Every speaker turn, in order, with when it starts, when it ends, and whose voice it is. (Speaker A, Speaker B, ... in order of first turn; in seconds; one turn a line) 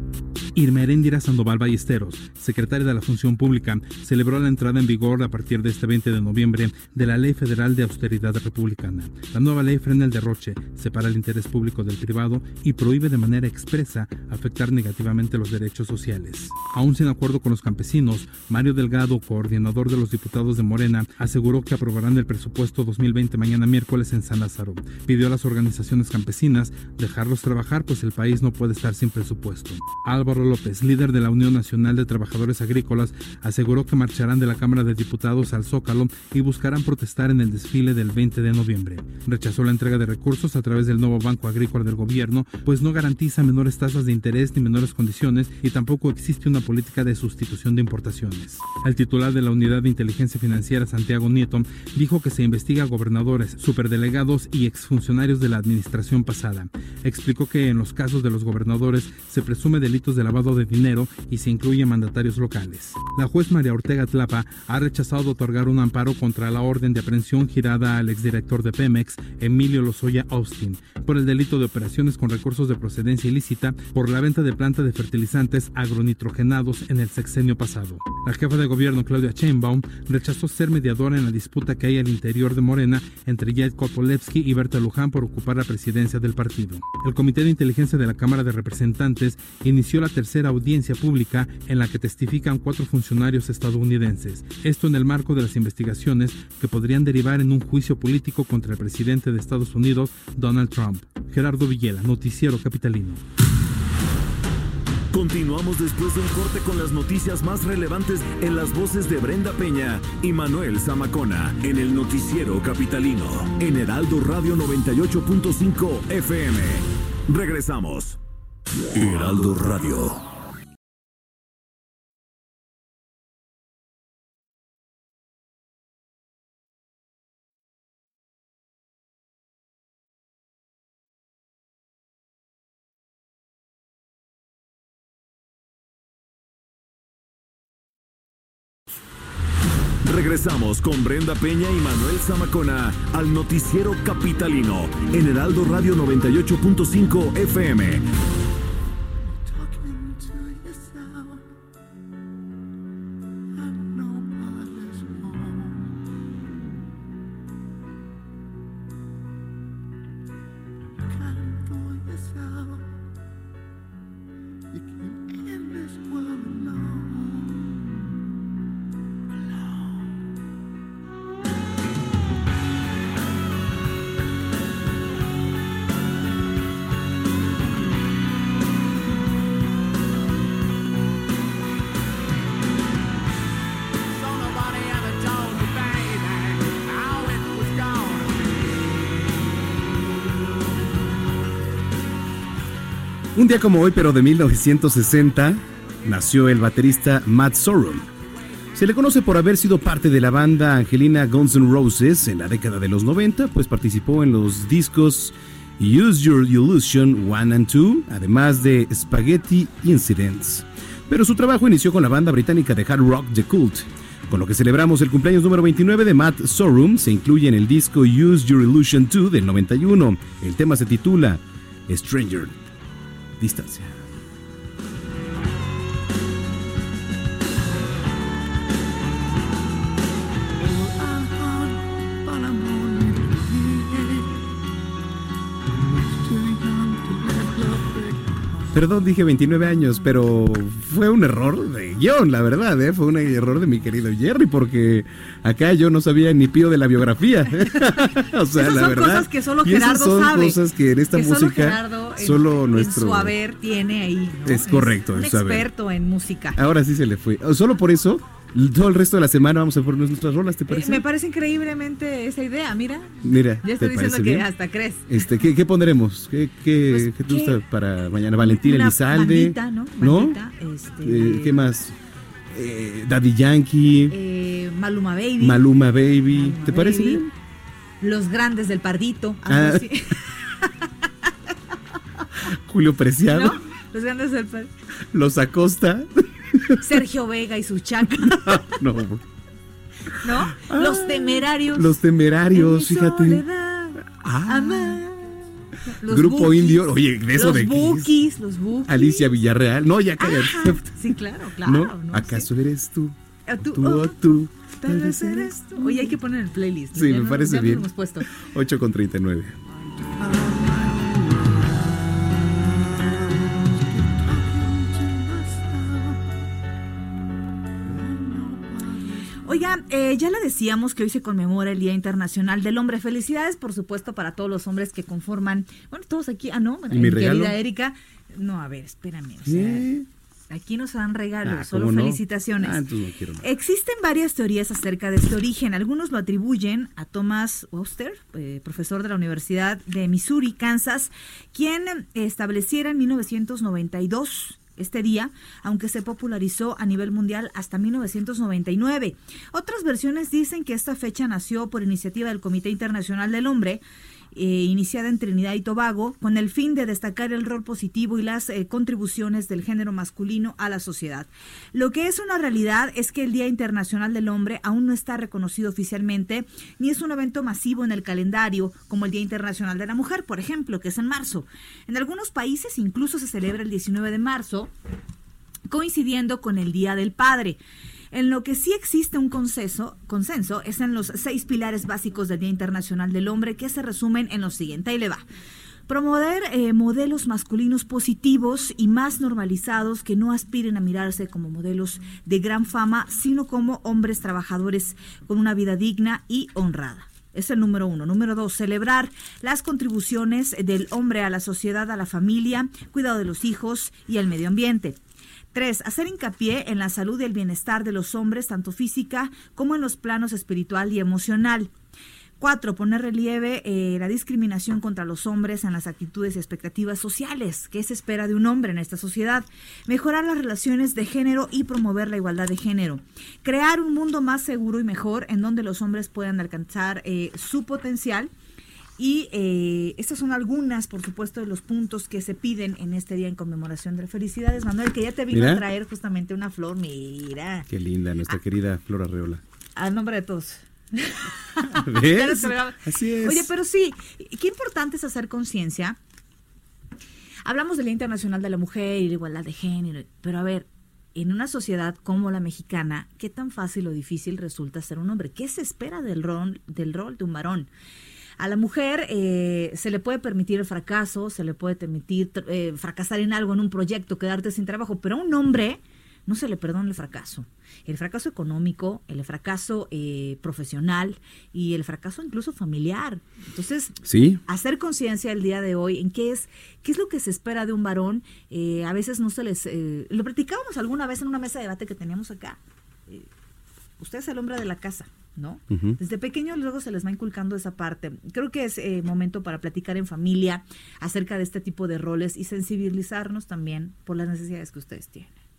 Speaker A: 0.5-103.2
Speaker B: 105.1-118.2
Speaker B: 118.9-120.2
Speaker B: 140.0-148.0
Speaker B: 149.9-151.2
Speaker C: 161.7-162.0
Speaker C: 165.5-167.0
Speaker C: 193.3-198.1
Speaker C: 198.7-222.6
Speaker C: 223.4-224.1
Speaker C: 230.6-234.4
Speaker C: 236.0-253.3
Speaker D: 248.5-250.6
Speaker D: 251.1-256.6
Speaker C: 254.4-255.7
Speaker C: 256.6-261.0
Speaker D: 260.7-265.2
Speaker C: 263.2-264.5
Speaker C: 265.1-270.4
Speaker D: 266.9-267.6
Speaker D: 268.4-271.6
Speaker C: 271.0-271.9
Speaker C: 272.5-274.1
Speaker D: 274.1-275.6
Speaker C: 275.4-277.3
Speaker D: 276.3-277.2
Speaker D: 278.0-280.9
Speaker C: 279.5-279.9
Speaker C: 282.4-283.6
Speaker D: 283.3-284.7
Speaker C: 285.1-286.8
Speaker D: 286.8-288.8
Speaker C: 288.4-289.2
Speaker D: 290.2-295.1
Speaker C: 290.5-293.4
Speaker C: 294.0-295.3
Speaker D: 295.9-299.4
Speaker C: 296.1-298.1
Speaker C: 298.9-301.1
Speaker D: 300.2-302.5
Speaker C: 301.6-306.1
Speaker D: 303.5-308.3
Speaker C: 306.9-309.6
Speaker C: 310.2-311.5
Speaker C: 313.0-313.5
Speaker C: 314.1-316.1
Speaker C: 317.9-319.2
Speaker D: 319.4-329.9
Speaker C: 326.9-327.6
Speaker C: 329.4-330.1
Speaker D: 330.5-332.8
Speaker C: 331.4-333.5
Speaker D: 333.4-353.8
Speaker D: 354.3-374.7
Speaker D: 375.7-377.6
Speaker D: 378.1-385.2
Speaker D: 385.9-405.0
Speaker D: 405.5-411.7
Speaker D: 412.4-428.3
Speaker D: 429.0-437.7
Speaker C: 435.3-435.6
Speaker C: 437.7-439.4
Speaker D: 439.8-446.0
Speaker C: 441.8-443.5
Speaker D: 447.4-457.7
Speaker D: 458.4-473.9
Speaker C: 474.0-474.4
Speaker D: 474.4-483.3
Speaker D: 484.0-495.3
Speaker C: 485.7-486.0